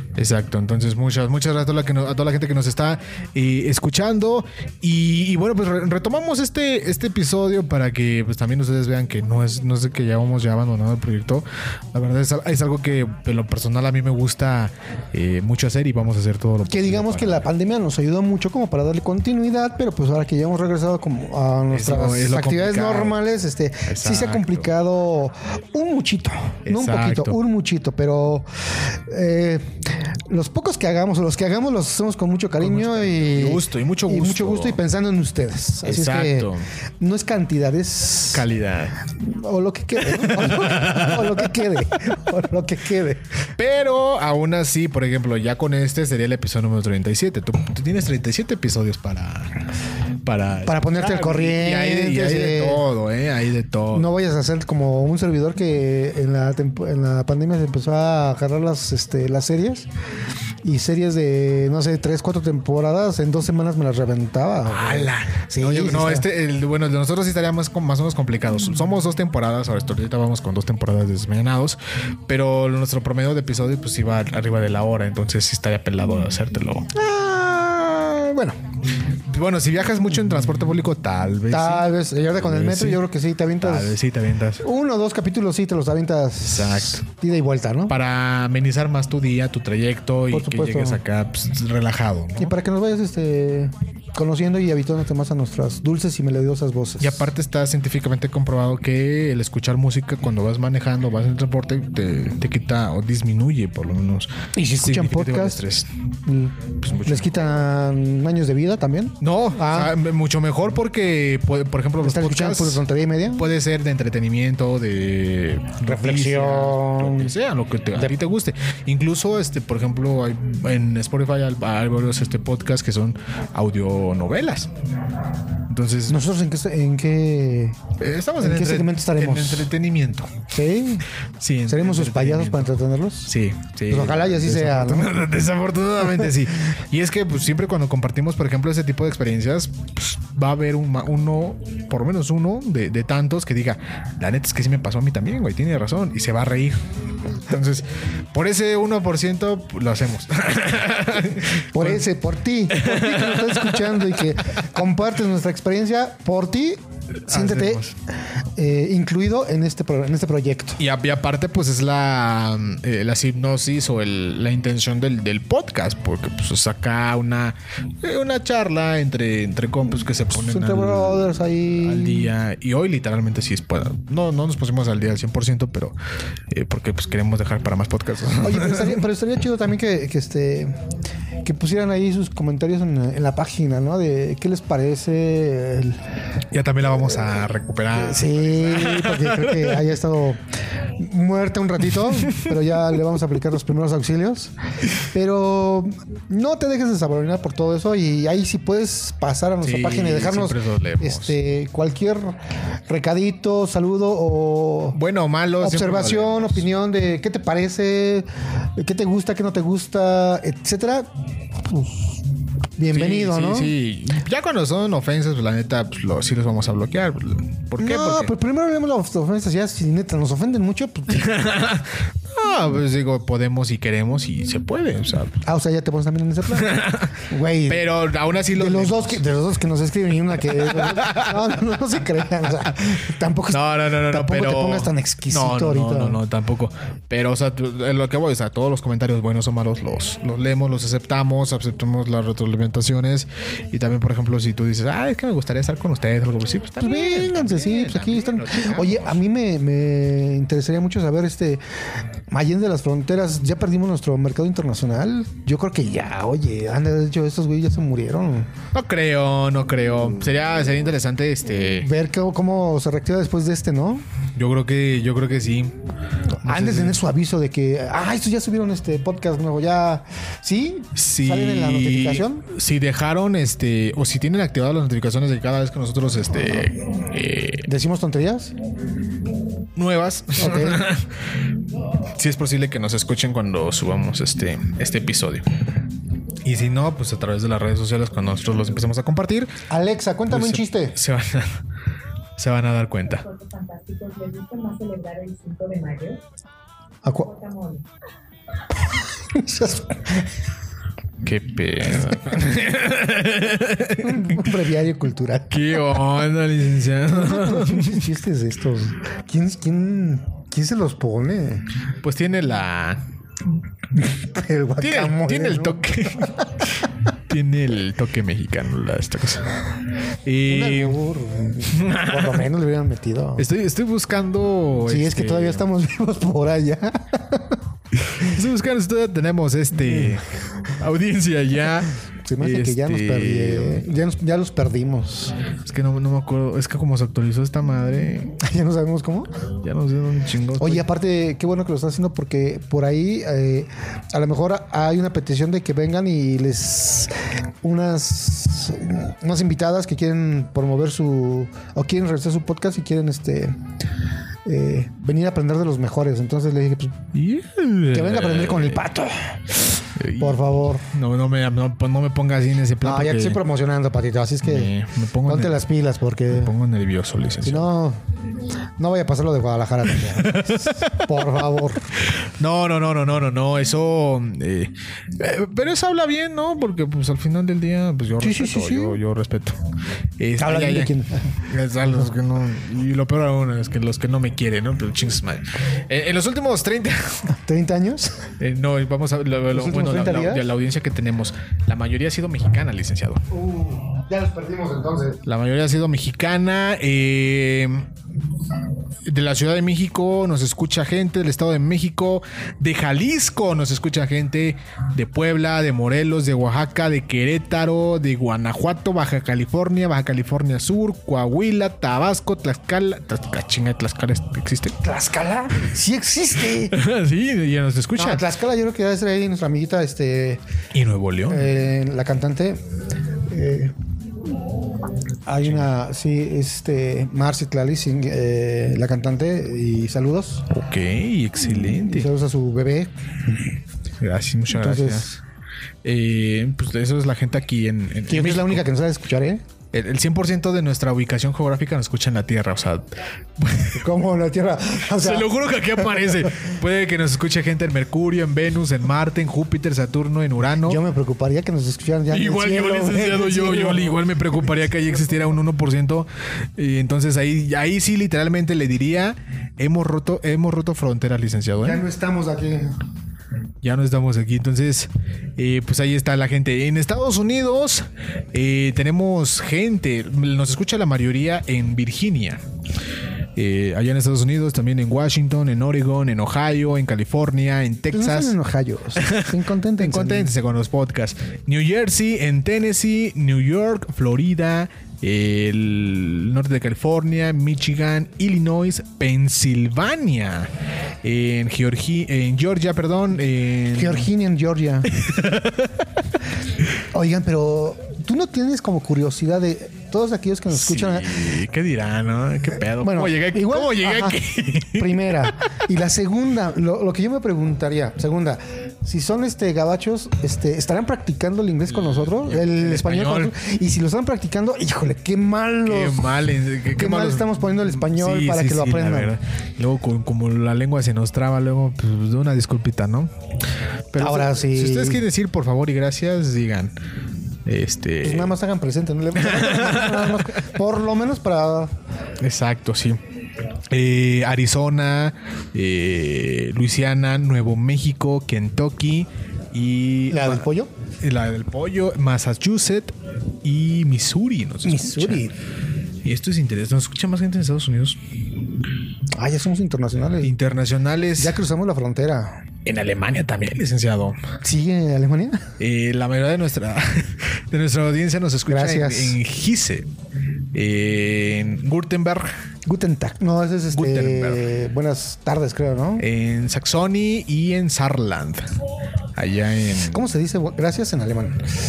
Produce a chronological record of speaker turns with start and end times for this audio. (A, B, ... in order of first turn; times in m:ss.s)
0:00.2-0:17.5 A
0:16.7-0:38.5 B
0:21.7-0:23.2 A
0:23.9-0:24.7 A
0:26.7-0:27.4 A
0:32.6-0:34.8 A
0:35.8-0:36.7 A
0:38.3-0:39.0 A
0:39.2-0:43.2 B
0:40.0-0:41.6 A
0:43.6-0:49.6 A
0:50.2-0:54.1 A
0:50.7-0:52.8 B
0:53.9-0:59.9 B
1:00.6-1:06.3 B
1:04.6-1:16.9 A
1:16.9-1:18.6 B
1:19.3-1:23.0 A
1:21.5-1:24.0 B
1:23.6-1:24.6 A
1:24.6-1:28.0 B
1:26.4-1:27.0 A
1:27.9-1:32.6 A
1:30.3-1:31.0 B
1:32.4-1:37.3 B
1:37.0-1:45.9 A
1:44.6-1:45.6 B
1:46.3-1:49.9 B
1:46.8-1:47.5 A
1:49.2-2:04.7 A
1:52.0-1:53.5 B
1:55.8-1:57.3 B
2:05.7-2:06.2 A
2:06.1-2:07.8 B
2:08.0-2:10.4 A
2:08.4-2:09.7 B
2:10.5-2:11.1 B
2:11.4-2:32.1 A
2:11.7-2:13.3 B
2:13.9-2:15.1 B
2:31.7-2:37.9 B
2:32.7-2:34.3 A
2:37.3-2:38.0 A
2:38.6-2:40.8 B
2:40.8-2:56.0 A
2:50.3-2:52.3 B
2:56.5-2:59.0 A
2:58.4-3:00.8 B
3:01.4-3:06.0 B
3:06.5-3:09.8 A
3:07.9-3:25.0 B
3:12.0-3:12.5 A
3:19.6-3:21.4 A
3:24.9-3:26.6 A
3:25.6-3:32.2 B
3:32.8-3:33.7 B
3:32.9-3:38.3 A
3:37.8-3:41.3 B
3:41.1-3:45.4 A
3:45.4-3:47.8 B
3:46.4-3:49.2 A
3:48.5-3:56.2 B
3:50.5-3:51.4 A
3:53.5-4:09.2 A
4:06.8-4:11.6 B
4:12.3-4:18.5 B
4:18.7-4:21.9 A
4:21.8-4:24.1 B
4:24.4-4:25.8 A
4:26.4-4:32.4 B
4:26.4-4:27.0 A
4:31.0-4:37.7 A
4:37.6-4:38.5 B
4:39.8-4:41.2 A
4:40.4-4:40.8 B
4:42.0-4:45.5 A
4:46.4-4:49.5 A
4:49.7-4:51.0 B
4:50.3-4:51.5 A
4:52.4-4:53.2 A
4:53.2-4:56.2 C
4:57.2-4:57.9 C
4:59.3-5:00.3 B
5:01.2-5:04.5 A
5:04.0-5:05.7 B
5:05.5-5:08.1 A
5:07.1-5:11.7 B
5:12.0-5:13.0 A
5:14.0-5:16.5 B
5:14.8-5:19.6 A
5:20.2-5:21.0 A
5:20.5-5:23.5 B
5:21.7-5:22.4 A
5:23.4-5:25.6 A
5:24.8-5:27.6 B
5:28.1-5:33.8 A
5:29.9-5:30.2 B
5:32.2-5:35.4 B
5:35.6-5:38.4 A
5:38.4-5:39.3 B
5:39.6-5:40.9 A
5:40.6-5:53.6 B
5:54.4-5:57.1 B
5:57.1-5:58.8 A
5:57.9-6:00.9 B
6:00.0-6:03.4 A
6:02.8-6:04.7 B
6:04.4-6:05.6 A
6:05.2-6:06.5 B
6:06.3-6:07.7 A
6:07.4-6:08.0 B
6:08.8-6:11.9 B
6:09.9-6:11.2 A
6:12.0-6:19.6 A
6:18.2-6:19.0 B
6:20.2-6:27.3 A
6:20.4-6:21.3 B
6:27.3-6:28.3 B
6:28.4-6:33.3 A
6:29.5-6:30.5 B
6:33.3-6:35.2 B
6:35.2-6:37.9 A
6:39.0-6:54.8 A
6:54.8-6:56.8 B
6:56.5-6:58.3 A
6:58.0-7:00.4 B
7:00.7-7:01.5 A
7:01.3-7:02.6 B
7:03.3-7:03.7 B
7:05.3-7:10.5 B
7:05.4-7:05.7 A
7:10.5-7:12.1 A
7:11.6-7:13.5 B
7:14.0-7:15.1 A
7:14.5-7:15.2 B
7:15.8-7:18.7 A
7:18.1-7:19.4 B
7:19.7-7:23.9 A
7:23.7-7:25.3 B
7:24.9-7:30.8 A
7:30.6-7:34.0 B
7:32.1-7:41.8 A
7:41.6-7:42.8 B
7:43.6-7:52.4 A
7:53.4-7:58.4 A
7:57.9-8:00.3 B
7:59.0-8:10.5 A
8:11.0-8:14.1 A
8:13.7-8:14.9 B
8:14.8-8:15.9 A
8:16.9-8:21.2 B
8:20.5-8:25.3 A
8:22.8-8:36.1 B
8:31.7-8:33.4 A
8:35.6-8:43.1 A
8:36.7-8:39.1 B
8:43.9-8:46.8 A
8:44.0-8:45.0 B
8:47.5-8:48.4 A
8:48.0-8:51.7 B
8:49.1-8:50.4 A
8:52.2-8:53.0 A
8:53.7-9:00.5 A
9:00.1-9:00.7 B
9:01.0-9:05.3 A
9:04.6-9:05.4 B
9:06.0-9:08.0 A
9:09.2-9:10.3 B
9:10.2-9:11.4 A
9:11.2-9:12.5 B
9:12.6-9:14.2 A
9:14.4-9:15.6 B
9:15.6-9:19.9 A
9:18.5-9:19.2 B
9:20.5-9:22.3 A
9:22.7-9:26.0 B
9:23.7-9:24.5 A
9:26.0-9:28.6 A
9:29.2-9:30.1 A
9:29.9-9:31.6 B